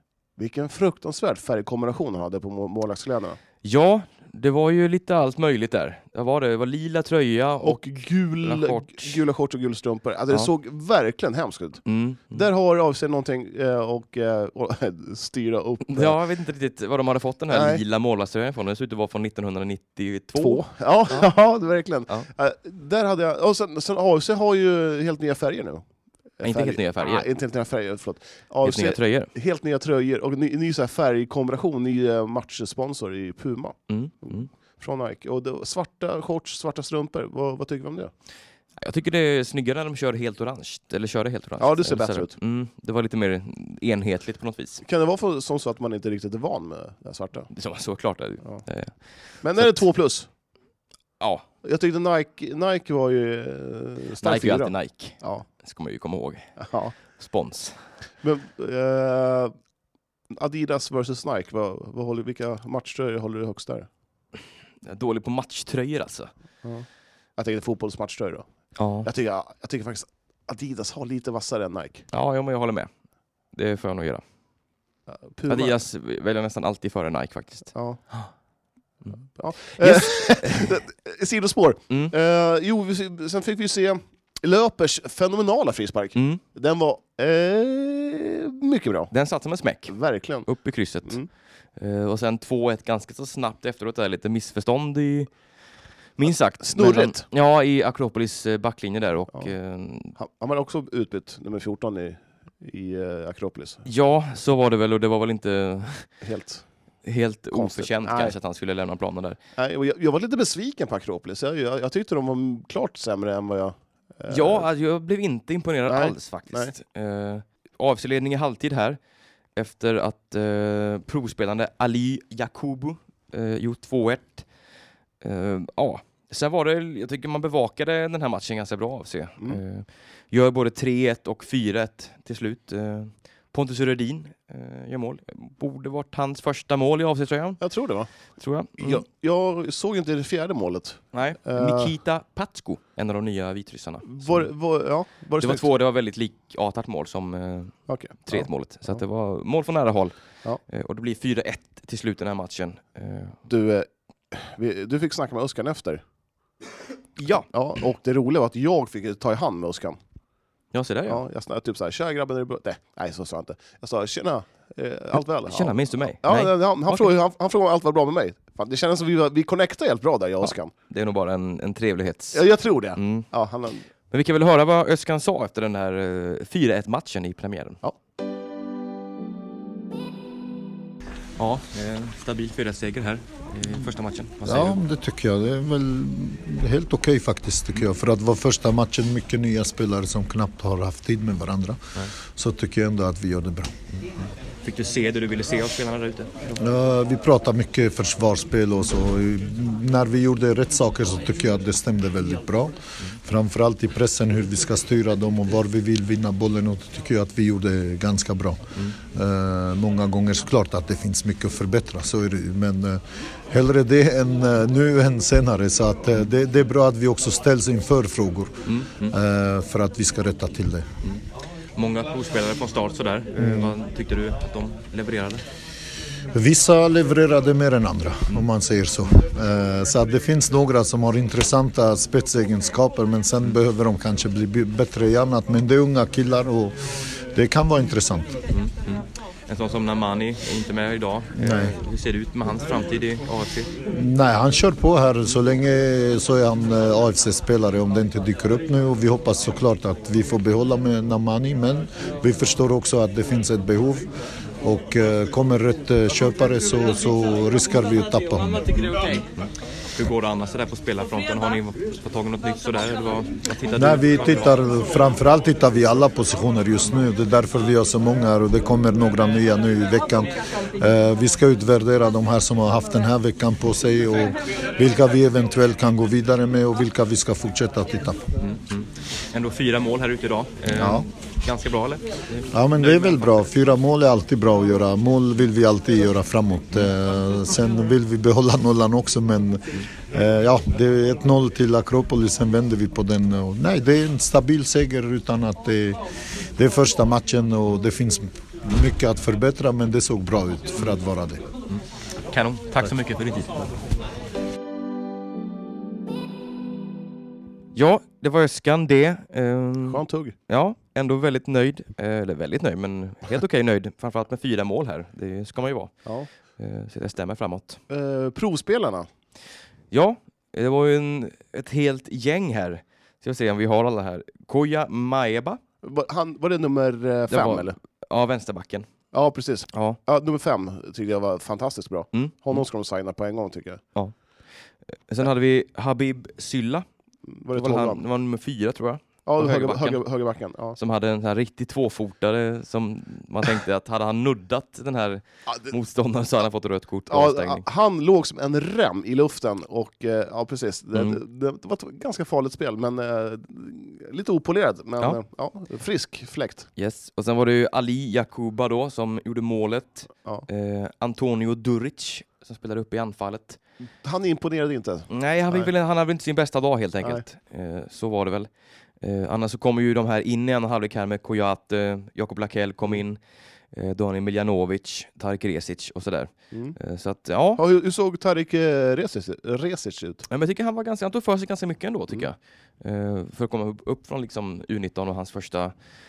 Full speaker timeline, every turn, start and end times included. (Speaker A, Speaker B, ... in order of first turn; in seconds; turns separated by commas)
Speaker A: 0.4-3.4, Speaker B: 3.6-7.8, Speaker A: 7.6-16.2, Speaker B: 8.4-9.2, Speaker B: 11.9-12.4, Speaker B: 15.8-20.6, Speaker A: 17.5-17.8, Speaker A: 20.4-25.8, Speaker A: 26.4-38.1, Speaker B: 26.4-27.3, Speaker B: 28.6-29.3, Speaker B: 33.9-34.5, Speaker B: 38.8-44.8, Speaker A: 41.6-42.4, Speaker A: 44.8-47.5, Speaker B: 47.5-49.0, Speaker A: 49.4-50.3, Speaker B: 49.6-49.8, Speaker B: 51.2-51.4, Speaker A: 51.6-55.4, Speaker B: 54.2-56.5, Speaker A: 56.6-56.9, Speaker B: 57.1-57.8, Speaker A: 58.2-59.5, Speaker A: 60.3-63.9, Speaker B: 64.8-66.3, Speaker A: 67.4-68.5, Speaker B: 68.8-69.1, Speaker A: 69.0-72.0, Speaker B: 72.1-72.9, Speaker B: 73.5-74.2, Speaker A: 75.1-75.8, Speaker B: 75.5-78.3, Speaker A: 77.7-78.0, Speaker A: 79.3-89.1, Speaker B: 79.8-80.7, Speaker B: 86.2-86.4, Speaker B: 89.1-89.9, Speaker A: 89.9-90.5, Speaker B: 90.5-91.2, Speaker B: 91.8-95.3, Speaker B: 96.2-100.1, Speaker A: 96.3-97.3, Speaker A: 100.1-103.8, Speaker B: 103.8-106.1, Speaker A: 106.2-106.6, Speaker B: 107.0-109.4, Speaker A: 107.5-108.3, Speaker A: 109.6-114.7, Speaker B: 114.3-119.0, Speaker A: 115.9-116.7, Speaker B: 119.5-124.5, Speaker B: 125.2-137.6, Speaker A: 137.6-138.1, Speaker B: 138.4-139.1, Speaker A: 138.8-141.9, Speaker B: 141.1-144.5, Speaker A: 144.0-145.7, Speaker B: 145.4-150.1, Speaker A: 147.9-149.0, Speaker B: 150.7-153.4, Speaker A: 153.5-156.0, Speaker B: 157.2-157.5, Speaker A: 157.5-160.0, Speaker B: 160.7-161.2, Speaker A: 161.1-170.7, Speaker B: 165.4-167.1, Speaker B: 170.9-172.4, Speaker A: 172.3-173.8, Speaker B: 172.9-173.3, Speaker B: 174.1-177.8, Speaker B: 181.4-184.8, Speaker C: 184.4-193.7, Speaker B: 194.6-196.5, Speaker C: 196.6-220.9, Speaker B: 218.7-219.2, Speaker B: 221.8-225.4, Speaker C: 223.4-223.7, Speaker C: 226.3-236.8, Speaker C: 237.3-238.4, Speaker B: 238.5-243.7, Speaker C: 241.4-241.7, Speaker C: 243.8-254.1, Speaker C: 254.6-258.8, Speaker B: 258.9-264.6, Speaker C: 263.7-278.2, Speaker B: 278.4-283.3, Speaker C: 280.7-281.1, Speaker C: 282.5-296.0, Speaker C: 296.6-301.4, Speaker B: 301.7-303.7, Speaker B: 307.7-315.9, Speaker A: 309.9-310.3, Speaker B: 316.6-317.8, Speaker A: 317.9-319.1, Speaker B: 319.9-325.6, Speaker A: 325.8-327.8, Speaker B: 327.3-328.9, Speaker A: 329.1-333.8, Speaker B: 329.7-330.0, Speaker B: 332.1-332.6, Speaker B: 335.1-336.8, Speaker A: 337.3-338.0, Speaker B: 337.5-340.0, Speaker A: 339.3-340.8, Speaker B: 340.8-347.6, Speaker A: 345.5-345.7, Speaker A: 347.1-356.7, Speaker B: 356.8-363.6, Speaker A: 364.0-365.7, Speaker B: 365.1-368.5, Speaker B: 369.0-373.2, Speaker B: 373.7-377.6, Speaker A: 376.5-376.8, Speaker A: 377.6-380.2, Speaker B: 380.3-385.7